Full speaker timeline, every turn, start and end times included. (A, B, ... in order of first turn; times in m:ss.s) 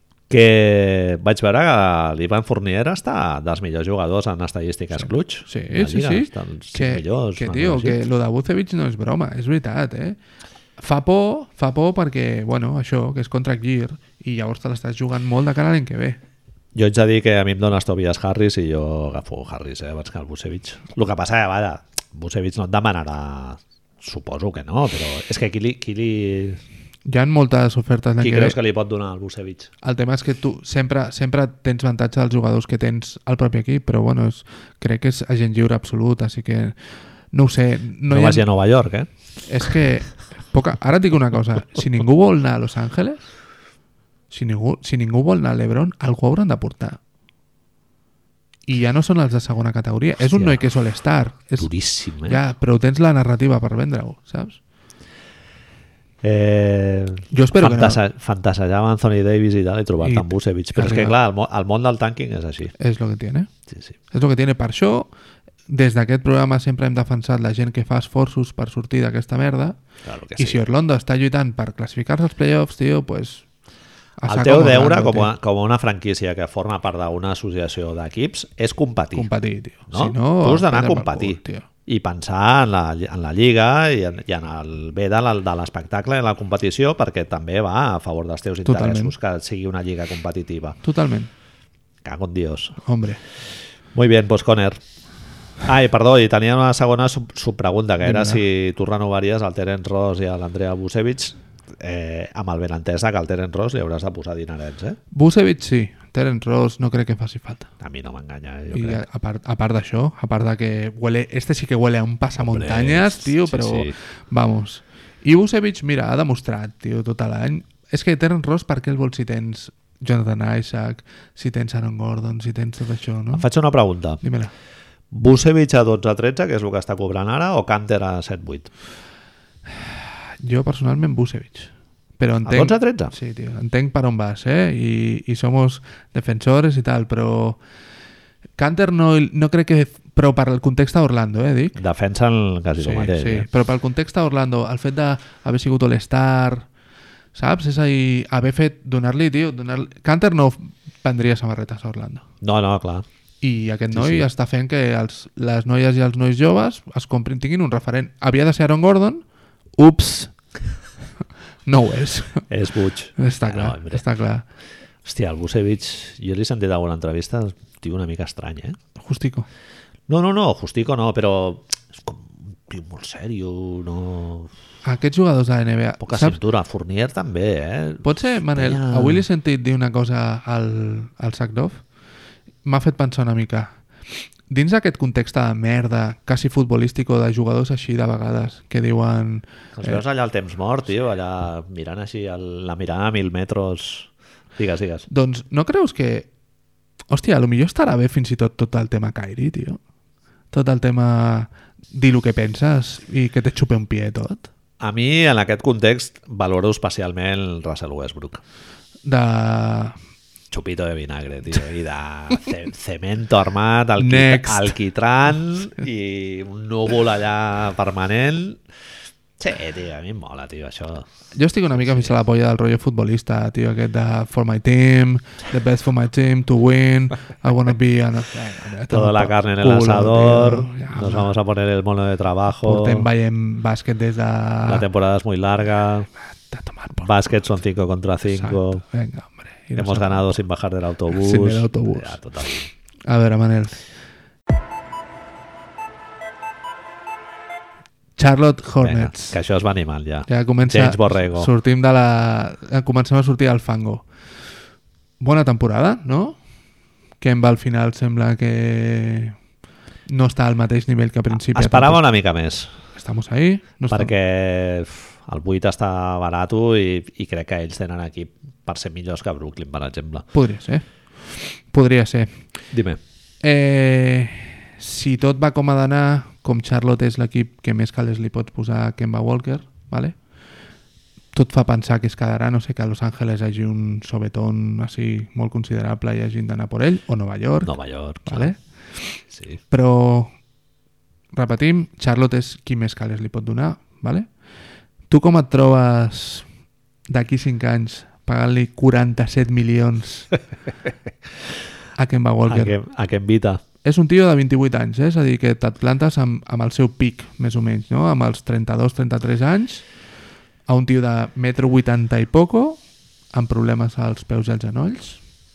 0:00.3-0:08.0 A
0:05.0-0:10.2 B
0:10.8-0:16.2 B
0:16.8-0:26.6 A
0:27.0-0:28.6 B
0:28.2-0:29.7 A
0:29.8-0:36.8 B
0:37.3-0:38.4 B
0:38.1-0:39.1 A
0:39.5-0:43.2 B
0:44.3-0:47.0 B
0:48.7-0:51.7 B
0:50.2-0:50.6 A
0:51.6-0:52.4 A
0:52.2-0:54.6 B
0:56.2-1:02.7 A
0:57.3-0:58.0 B
1:00.0-1:01.2 B
1:02.8-1:03.5 B
1:03.7-1:04.0 A
1:04.1-1:05.1 B
1:05.7-1:09.8 B
1:10.0-1:10.6 A
1:10.4-1:13.4 B
1:14.2-1:15.3 B
1:14.3-1:19.3 A
1:19.2-1:21.7 B
1:19.9-1:30.8 A
1:28.6-1:29.1 B
1:30.8-1:31.3 B
1:32.0-1:32.8 A
1:32.8-1:33.2 B
1:33.9-1:34.8 A
1:35.6-1:45.0 A
1:38.0-1:38.4 B
1:45.1-1:47.7 B
1:47.8-1:49.0 A
1:48.7-2:03.4 B
1:52.4-1:54.0 A
2:03.3-2:04.2 A
2:04.2-2:04.5 B
2:05.1-2:08.7 A
2:09.7-2:17.6 B
2:12.4-2:13.1 A
2:18.6-2:21.8 B
2:21.8-2:23.5 A
2:22.8-2:26.7 B
2:27.4-2:32.2 B
2:32.4-2:33.0 A
2:33.4-2:39.2 B
2:33.9-2:34.3 A
2:39.8-2:40.3 B
2:41.7-2:42.4 B
2:42.5-2:44.0 A
2:43.2-2:44.4 B
2:45.0-2:48.8 A
2:49.0-2:49.5 B
2:50.1-2:54.5 A
2:54.8-2:56.4 B
2:56.0-2:59.2 A
2:58.0-3:01.8 B
3:02.6-3:03.8 B
3:04.5-3:10.0 B
3:09.8-3:15.1 A
3:15.1-3:16.3 B
3:17.1-3:19.8 B
3:20.5-3:24.5 B
3:24.8-3:28.4 A
3:29.0-3:30.0 B
3:30.5-3:38.6 A
3:34.0-3:34.8 B
3:39.4-3:41.1 A
3:41.3-3:51.3 B
3:41.8-3:42.1 A
3:48.9-3:53.1 A
3:52.6-3:54.9 B
3:54.7-3:56.1 A
3:56.4-3:57.1 B
3:57.0-3:58.8 A
3:58.3-4:00.3 B
3:59.8-4:02.7 A
4:01.1-4:02.2 B
4:03.1-4:03.8 B
4:08.2-4:09.4 B
4:08.8-4:11.5 A
4:10.3-4:14.1 B
4:15.2-4:16.4 B
4:17.2-4:19.4 B
4:20.1-4:22.0 B
4:21.5-4:22.8 A
4:23.0-4:24.1 B
4:23.9-4:30.3 A
4:30.3-4:32.4 B
4:32.7-4:33.0 A
4:33.4-4:40.2 B
4:41.3-4:47.7 B
4:47.6-4:48.5 A
4:48.3-4:50.3 B
4:49.3-4:49.6 A
4:51.3-4:54.3 B
4:55.1-4:56.5 B
4:57.1-5:00.3 B
5:02.0-5:02.8 B
5:02.5-5:03.6 A
5:03.8-5:09.8 B
5:10.7-5:12.8 B
5:13.3-5:15.2 B